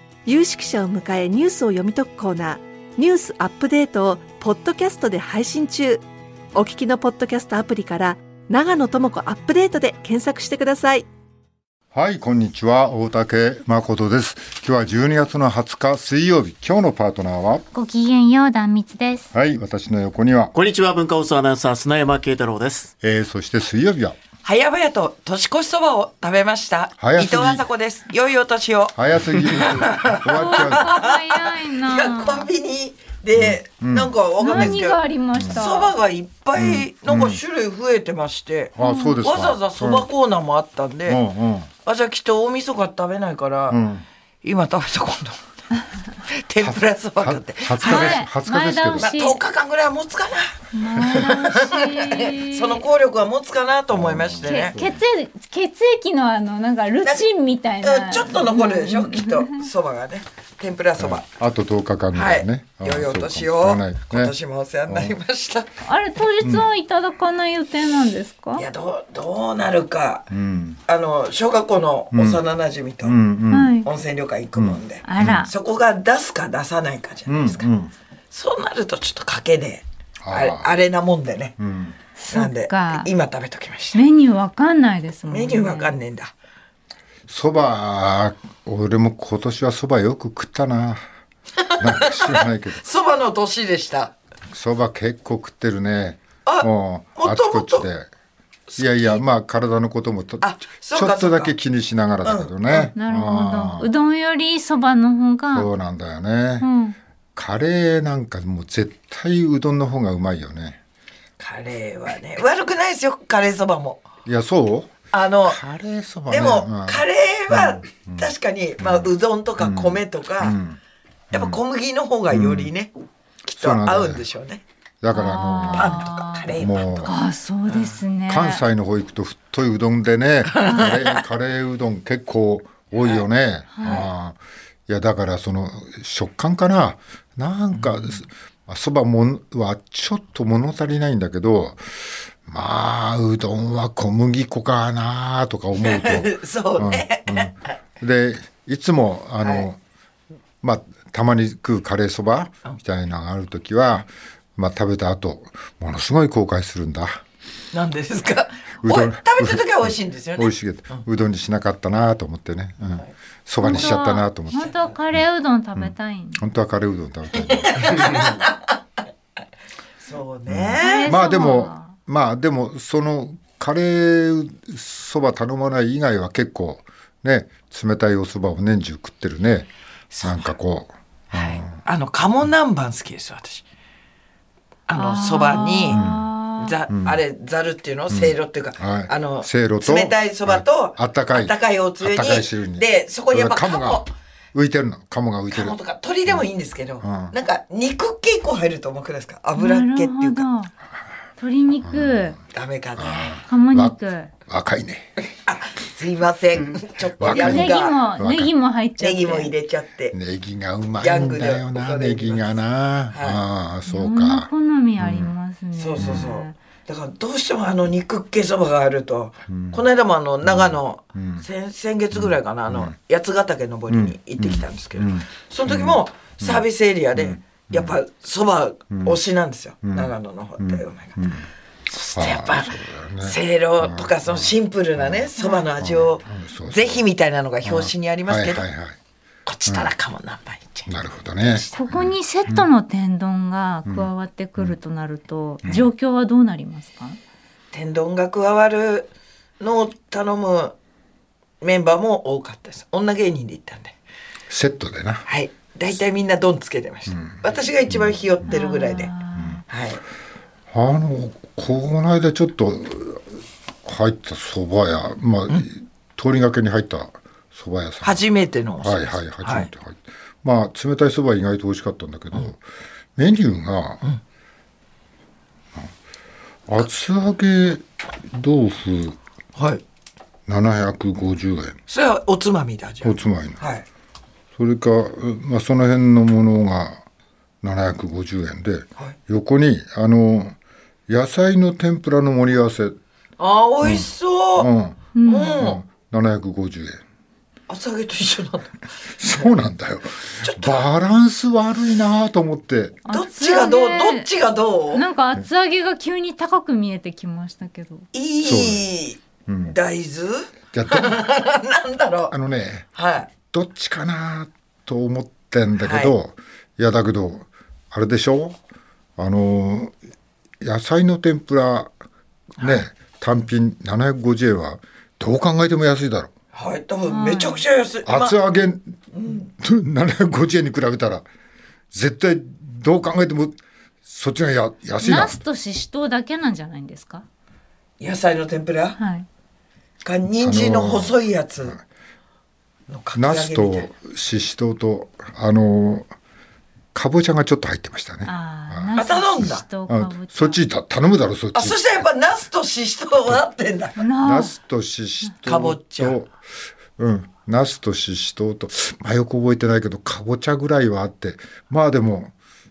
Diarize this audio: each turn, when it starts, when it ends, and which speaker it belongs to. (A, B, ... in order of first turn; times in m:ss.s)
0:00.2-0:11.1 A
0:11.9-0:17.6 B
0:17.7-0:19.3 C
0:19.3-0:20.5 B
0:20.5-0:22.9 D
0:23.0-0:24.2 B
0:24.4-0:41.2 E
0:27.0-0:27.6 B
0:28.9-0:30.9 B
0:30.3-0:32.5 C
0:33.3-0:34.8 B
0:34.4-0:35.9 C
0:36.6-0:37.4 B
0:38.8-0:40.1 B
0:38.8-0:39.2 C
0:41.1-0:41.7 B
0:41.8-0:43.8 E
0:43.7-0:44.0 B
0:44.4-0:45.4 E
0:46.2-0:48.2 E
0:46.6-0:49.1 B
0:47.8-0:49.4 C
0:49.0-0:54.7 E
0:50.7-0:52.8 C
0:53.9-0:55.0 B
0:54.4-0:59.6 C
0:57.8-1:01.2 E
1:01.0-1:04.3 B
1:02.1-1:05.7 E
1:04.9-1:05.2 B
1:05.8-1:08.6 C
1:06.4-1:06.7 B
1:08.6-1:10.3 E
1:10.3-1:10.8 B
1:10.9-1:13.2 E
1:12.1-1:12.4 B
1:13.0-1:13.8 B
1:13.5-1:13.9 C
1:13.8-1:17.7 E
1:14.5-1:15.5 B
1:15.0-1:15.5 C
1:17.3-1:17.9 B
1:18.3-1:21.6 E
1:20.2-1:20.7 B
1:21.6-1:21.9 B
1:22.2-1:23.1 C
1:22.3-1:24.0 E
1:23.9-1:25.9 C
1:25.3-1:26.3 E
1:27.3-1:31.0 B
1:31.6-1:34.1 E
1:31.8-1:32.8 B
1:34.5-1:38.1 B
1:36.4-1:37.9 E
1:38.7-1:39.2 E
1:38.8-1:43.9 B
1:40.4-1:41.5 E
1:42.2-1:42.9 E
1:43.0-1:45.7 C
1:45.5-1:46.7 B
1:46.6-1:47.0 C
1:47.3-1:50.8 B
1:51.4-1:54.0 E
1:54.2-1:54.9 B
1:55.1-1:55.6 E
1:55.4-1:58.3 B
1:56.3-2:00.6 E
1:58.8-2:00.8 B
2:01.3-2:01.6 B
2:01.3-2:02.9 E
2:02.3-2:02.7 B
2:03.4-2:04.6 E
2:03.5-2:04.2 B
2:05.0-2:07.2 B
2:05.1-2:06.5 C
2:05.6-2:07.1 E
2:07.0-2:08.6 C
2:07.7-2:07.9 E
2:08.3-2:14.4 B
2:10.5-2:11.2 E
2:10.6-2:10.9 C
2:13.8-2:14.0 C
2:13.8-2:14.1 E
2:14.9-2:29.8 B
2:17.8-2:18.1 E
2:25.8-2:27.5 E
2:30.6-2:37.2 B
2:37.7-2:41.0 E
2:38.8-2:44.7 B
2:43.6-2:46.4 C
2:43.7-2:43.9 E
2:44.6-2:44.9 E
2:45.8-2:48.3 B
2:47.5-2:48.6 E
2:50.0-2:51.1 E
2:50.5-2:59.7 B
2:50.8-2:51.9 C
3:00.1-3:00.5 E
3:00.2-3:01.8 B
3:01.3-3:03.6 E
3:04.9-3:06.0 E
3:04.9-3:06.8 C
3:05.9-3:06.2 B
3:06.6-3:14.1 E
3:06.9-3:07.2 B
3:08.1-3:15.8 B
3:15.5-3:20.4 E
3:17.0-3:17.3 B
3:19.6-3:20.7 C
3:21.4-3:22.4 C
3:21.8-3:22.4 B
3:22.5-3:23.4 E
3:23.0-3:25.1 B
3:23.4-3:24.3 C
3:25.4-3:28.0 E
3:27.2-3:28.5 B
3:27.3-3:29.5 C
3:29.0-3:30.2 E
3:30.1-3:34.5 B
3:31.0-3:32.5 E
3:33.1-3:33.4 E
3:33.9-3:36.6 C
3:35.0-3:35.3 B
3:35.8-3:51.3 E
3:36.0-3:36.2 B
3:39.5-3:39.8 B
3:40.4-3:41.4 B
3:42.1-3:42.9 B
3:43.9-3:46.6 B
3:47.2-3:47.9 B
3:48.9-3:49.2 B
3:49.8-3:51.4 B
3:51.9-3:58.6 E
3:52.1-3:55.3 B
3:55.4-3:55.7 C
3:55.8-3:57.0 B
3:57.6-3:59.0 B
3:59.4-4:00.9 E
3:59.6-3:59.9 B
4:00.9-4:02.7 B
4:01.4-4:01.8 E
4:01.7-4:07.2 C
4:03.8-4:04.7 B
4:07.7-4:10.7 E
4:11.6-4:14.0 E
4:14.5-4:15.2 B
4:15.3-4:19.1 E
4:18.5-4:19.6 C
4:19.7-4:20.0 E
4:20.7-4:23.2 B
4:23.8-4:28.2 B
4:28.0-4:29.7 E
4:28.8-4:32.6 B
4:33.2-4:34.0 B
4:36.7-4:39.2 B
4:39.6-4:39.8 E
4:40.5-4:41.8 B
4:41.9-4:43.8 E
4:43.0-4:43.6 B
4:44.6-4:47.0 B
4:47.6-4:50.6 B
4:51.1-4:53.0 B
4:53.4-4:54.7 E
4:53.8-4:55.0 B
4:55.1-4:55.6 C
4:55.2-4:55.8 E
4:55.6-4:57.0 B
4:57.7-4:59.5 E
4:59.2-5:03.0 B
5:00.3-5:00.9 E
5:03.0-5:04.3 C
5:03.1-5:05.0 E
5:04.9-5:08.1 C
5:08.1-5:12.3 E
5:08.4-5:08.8 B
5:09.5-5:09.7 B
5:10.7-5:11.3 B
5:12.3-5:12.9 B
5:12.9-5:13.3 E
5:13.4-5:18.6 B
5:15.8-5:16.1 E
5:19.2-5:19.9 B
5:20.6-5:21.9 B
5:22.6-5:26.3 B
5:26.5-5:28.4 E
5:27.0-5:27.6 C
5:28.0-5:29.0 B
5:29.1-5:29.5 E
5:29.6-5:31.2 B
5:31.9-5:35.4 B
5:35.0-5:37.2 C
5:38.0-5:39.0 E
5:39.0-5:39.2 C
5:40.0-5:41.8 E
5:40.4-5:41.8 B
5:42.9-5:43.9 E
5:43.1-5:46.1 B
5:46.9-5:51.9 B
5:48.2-5:50.6 C
5:49.0-5:49.6 E
5:51.5-5:54.0 E
5:54.0-5:54.5 C
5:54.2-5:56.3 B
5:55.4-5:56.2 E
5:57.0-6:02.3 B